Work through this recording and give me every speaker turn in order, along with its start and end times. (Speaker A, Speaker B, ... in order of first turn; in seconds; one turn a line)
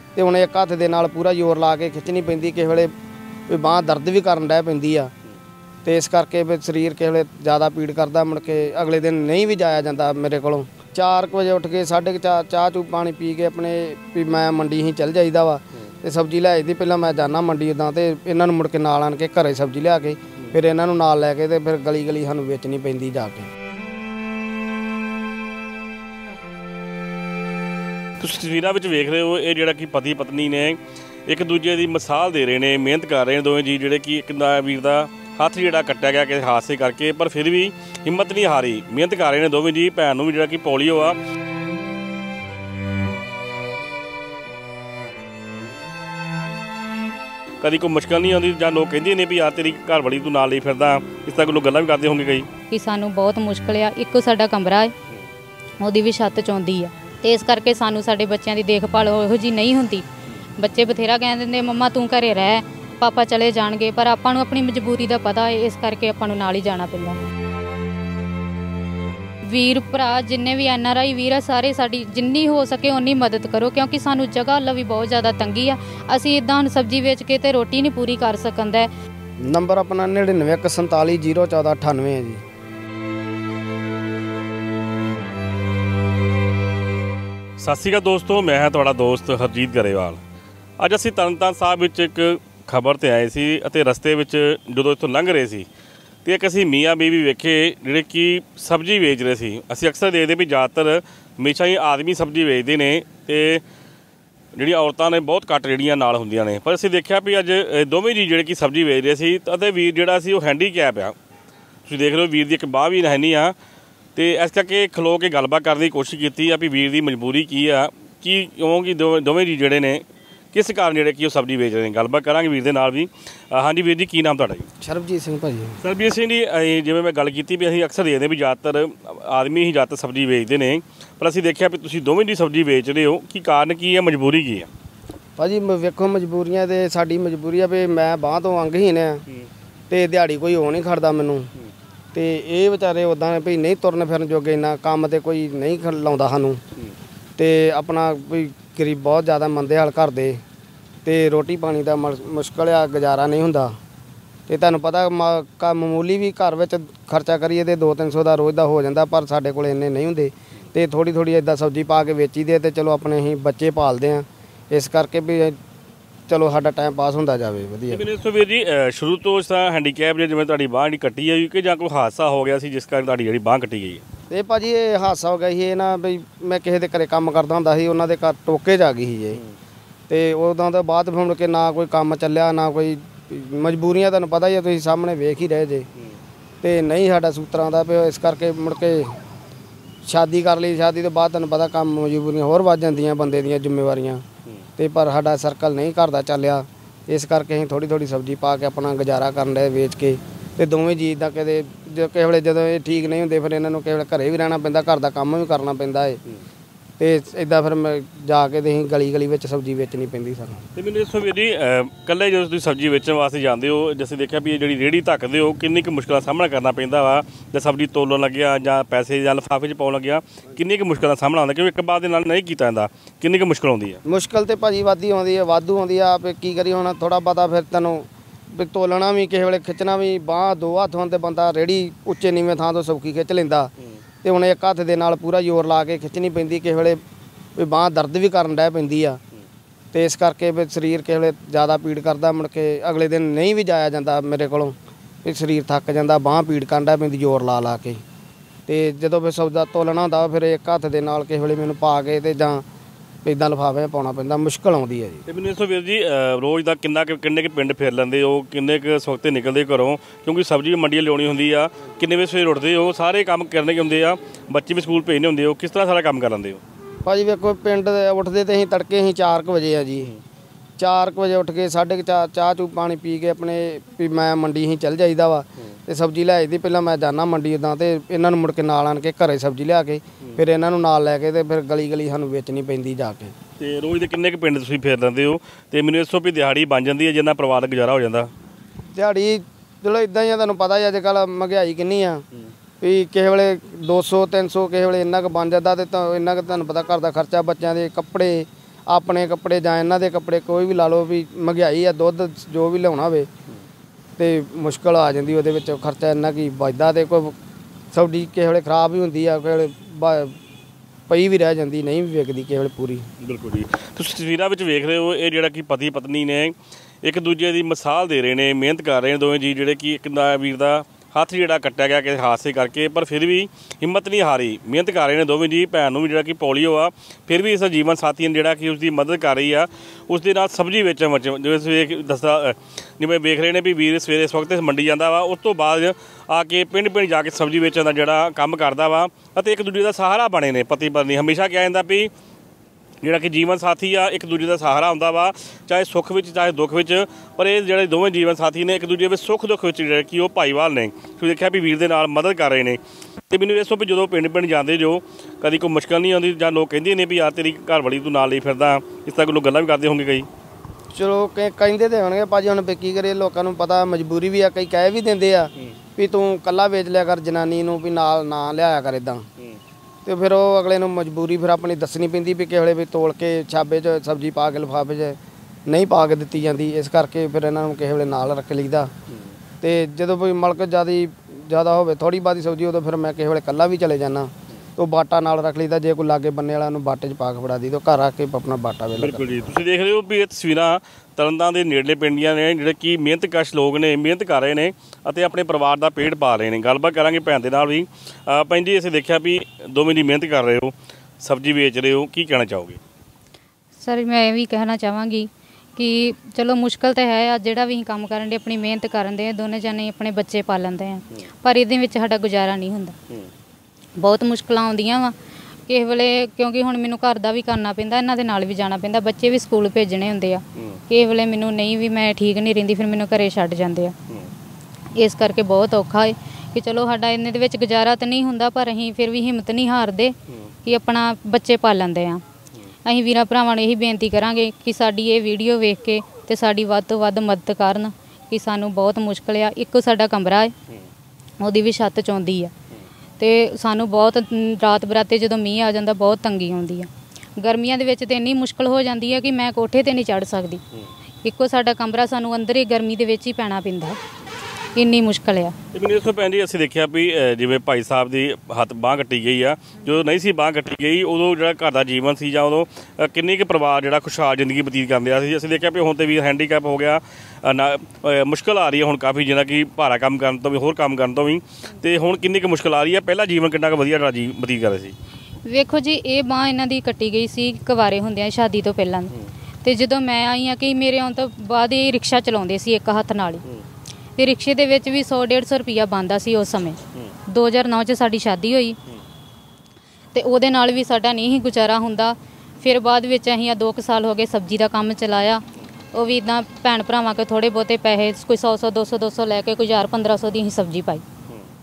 Speaker A: 0.1-2.9
Speaker A: 3.5-5.1
Speaker A: 5.8-23.5
Speaker B: 28.2-41.2
Speaker B: 47.6-52.5
Speaker C: 52.7-54.9
Speaker C: 55.8-60.1
Speaker C: 60.6-67.2
Speaker C: 69.4-78.9
Speaker A: 79.5-82.4
Speaker B: 87.6-90.2
Speaker B: 90.8-95.7
Speaker B: 96.2-103.6
Speaker B: 104.6-111.2
Speaker B: 111.9-113.5
Speaker B: 114.2-124.7
Speaker A: 124.8-125.8
Speaker B: 125.8-134.7
Speaker A: 135.4-139.2
Speaker A: 139.9-141.5
Speaker A: 142.1-146.6
Speaker A: 147.4-150.4
Speaker A: 151.1-153.8
Speaker A: 154.5-165.6
Speaker A: 166.3-168.0
Speaker B: 167.9-174.0
Speaker A: 174.3-179.4
Speaker A: 180.1-185.9
Speaker A: 186.6-189.2
Speaker A: 190.1-194.2
Speaker A: 194.8-206.2
Speaker A: 207.0-210.6
Speaker B: 210.8-224.0
Speaker A: 224.1-233.7
Speaker A: 234.2-237.0
Speaker A: 237.6-239.2
Speaker A: 239.9-248.0
Speaker A: 248.7-252.6
Speaker A: 253.2-255.2
Speaker B: 255.3-266.6
Speaker A: 267.1-270.1
Speaker A: 270.8-283.3
Speaker B: 283.6-288.3
Speaker A: 288.9-292.2
Speaker A: 292.8-303.3
Speaker A: 304.2-307.4
Speaker A: 307.9-310.4
Speaker A: 311.1-313.1
Speaker B: 313.2-342.1
Speaker B: 343.0-352.8
Speaker B: 353.3-360.3
Speaker A: 360.9-369.3
Speaker A: 370.1-378.9
Speaker A: 379.6-389.5
Speaker B: 389.0-402.8
Speaker C: 403.8-413.0
Speaker C: 414.0-415.1
Speaker C: 415.7-423.9
Speaker C: 424.9-432.2
Speaker C: 432.9-440.5
Speaker C: 441.4-442.5
Speaker C: 443.2-450.6
Speaker C: 451.2-454.0
Speaker C: 454.8-455.6
Speaker B: 455.7-474.9
Speaker C: 475.4-483.4
Speaker C: 484.2-488.8
Speaker C: 490.1-495.4
Speaker C: 495.9-501.1